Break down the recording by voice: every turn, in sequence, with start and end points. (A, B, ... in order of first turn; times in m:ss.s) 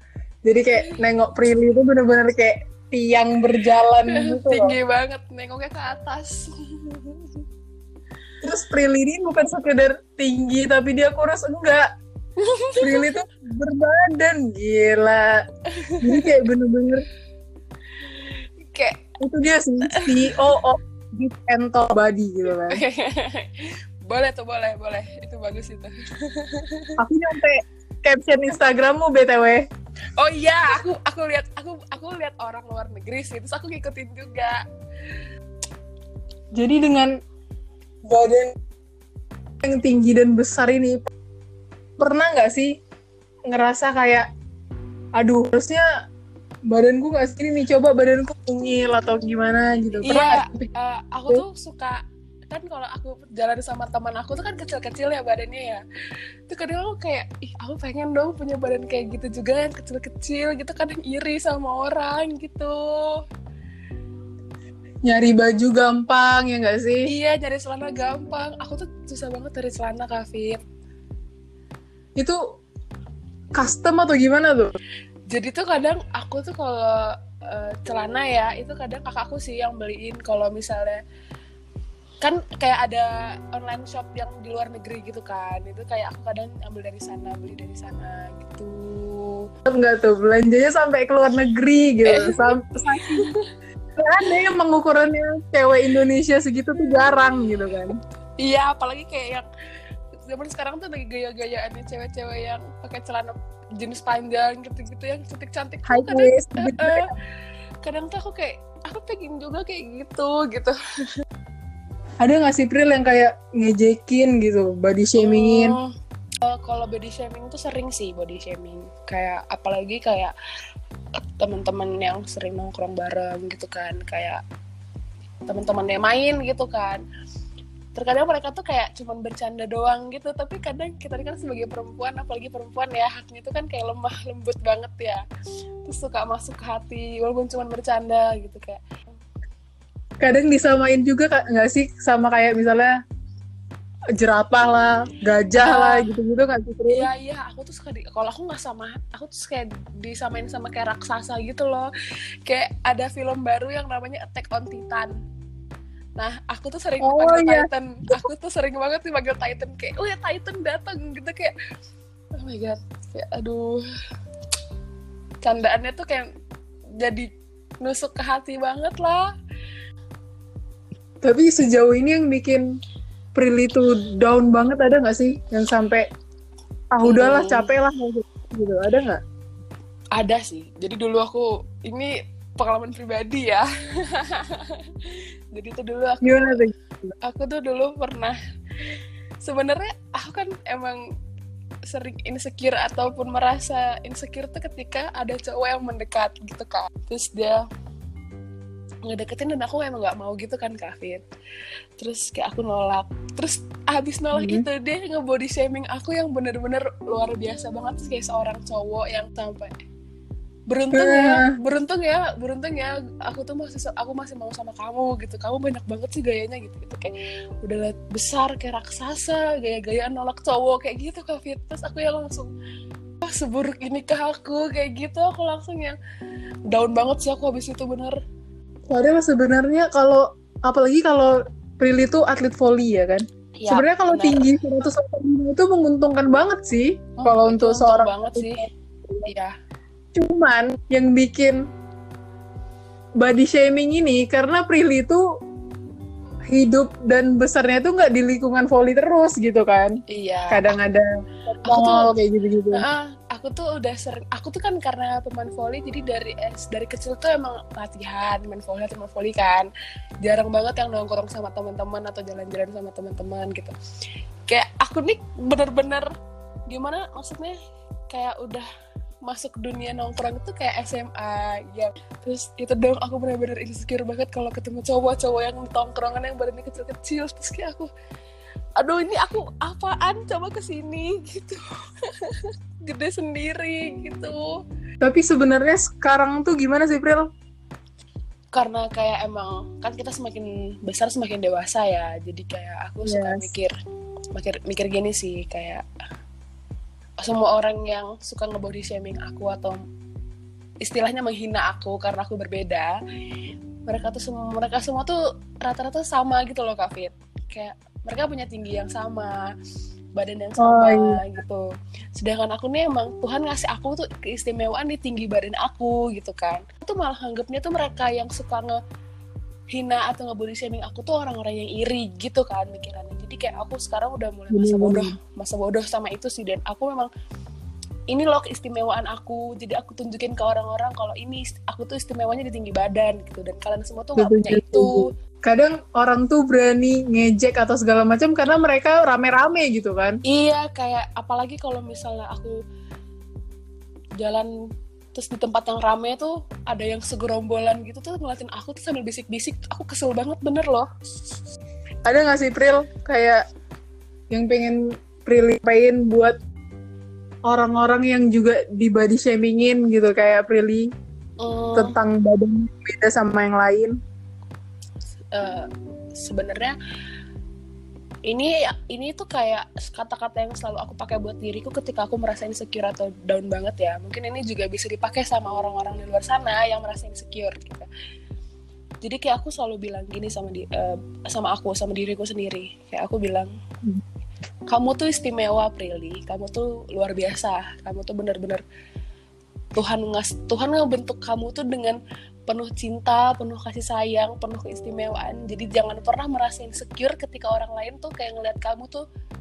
0:00.4-0:04.7 A
0:04.0-0:07.4 B
0:08.4-0:11.9 A
0:12.4-0:13.2 B
0:12.8-0:15.4 A
0:15.8-0:16.3 B
0:16.0-0:17.0 A
0:18.0-0:19.0 B
0:19.2-0:22.8 A
0:19.8-0:20.6 B
0:22.5-0:26.9 B
0:27.0-0:29.6 A
0:30.2-0:34.6 B
0:36.5-0:37.1 A
0:38.1-0:38.6 A
0:39.6-0:41.0 A
0:42.0-0:42.8 A
0:43.5-0:44.3 A
0:45.2-0:45.8 A
0:46.7-0:50.5 A
0:50.0-0:55.8 B
0:56.5-1:03.2 B
1:05.0-1:07.1 A
1:07.0-1:10.6 B
1:13.6-1:14.8 A
1:15.3-1:21.0 B
1:22.2-1:29.5 B
1:29.7-1:33.3 A
1:32.0-1:33.4 B
1:34.0-1:38.0 A
1:36.8-1:37.2 B
1:38.4-1:39.5 B
1:40.3-1:47.1 B
1:45.9-1:47.1 A
1:47.8-1:50.8 B
1:52.2-1:55.8 A
1:55.2-1:55.9 B
1:56.4-2:00.4 B
2:01.4-2:04.4 B
2:05.5-2:07.0 B
2:08.0-2:15.2 B
2:15.8-2:18.8 B
2:20.2-2:22.9 A
2:24.2-2:27.1 A
2:25.6-2:26.1 B
2:26.9-2:31.9 B
2:32.5-2:35.1 B
2:36.2-2:41.5 B
2:37.0-2:38.1 A
2:42.4-2:43.8 B
2:45.4-2:46.3 B
2:47.0-2:47.3 B
2:47.8-2:49.3 B
2:51.2-2:52.6 A
2:53.4-2:56.0 A
2:56.9-2:59.2 A
2:57.0-2:57.7 B
3:00.1-3:06.6 B
3:06.2-3:06.7 A
3:07.2-3:08.4 B
3:09.4-3:11.0 B
3:11.9-3:17.6 B
3:19.1-3:21.2 B
3:22.0-3:29.7 B
3:24.4-3:24.6 A
3:30.7-3:42.5 B
3:30.9-3:31.5 A
3:43.2-3:46.0 B
3:46.7-3:48.2 B
3:48.9-3:58.5 A
3:53.6-3:54.5 B
3:57.2-3:58.7 B
3:59.3-3:59.5 B
4:00.2-4:01.6 A
4:03.2-4:05.2 A
4:06.5-4:10.0 A
4:10.1-4:10.7 B
4:10.5-4:11.1 A
4:11.6-4:12.8 A
4:11.6-4:12.2 B
4:12.7-4:19.7 B
4:20.2-4:23.7 B
4:24.5-4:26.1 B
4:26.7-4:27.6 B
4:28.1-4:28.7 B
4:29.2-4:37.9 B
4:38.8-4:44.5 B
4:45.0-4:47.3 A
4:48.5-4:53.7 B
4:53.0-4:53.5 A
4:54.3-4:55.8 B
4:57.2-4:59.8 B
5:00.8-5:03.0 B
5:03.9-5:09.4 B
5:10.2-5:11.6 B
5:10.6-5:11.2 A
5:12.2-5:18.8 B
5:19.7-5:27.1 B
5:24.5-5:25.1 A
5:28.1-5:35.1 B
5:34.2-5:40.2 A
5:40.3-5:42.5 B
5:44.2-5:44.5 B
5:45.1-5:50.9 B
5:52.0-5:53.4 A
5:54.3-5:56.4 A
5:57.5-6:00.9 A
6:01.4-6:02.0 B
6:01.8-6:04.0 A
6:05.3-6:06.8 B
6:08.3-6:17.9 B
6:19.0-6:23.5 B
6:24.7-6:28.6 B
6:29.8-6:32.0 B
6:32.5-6:39.1 B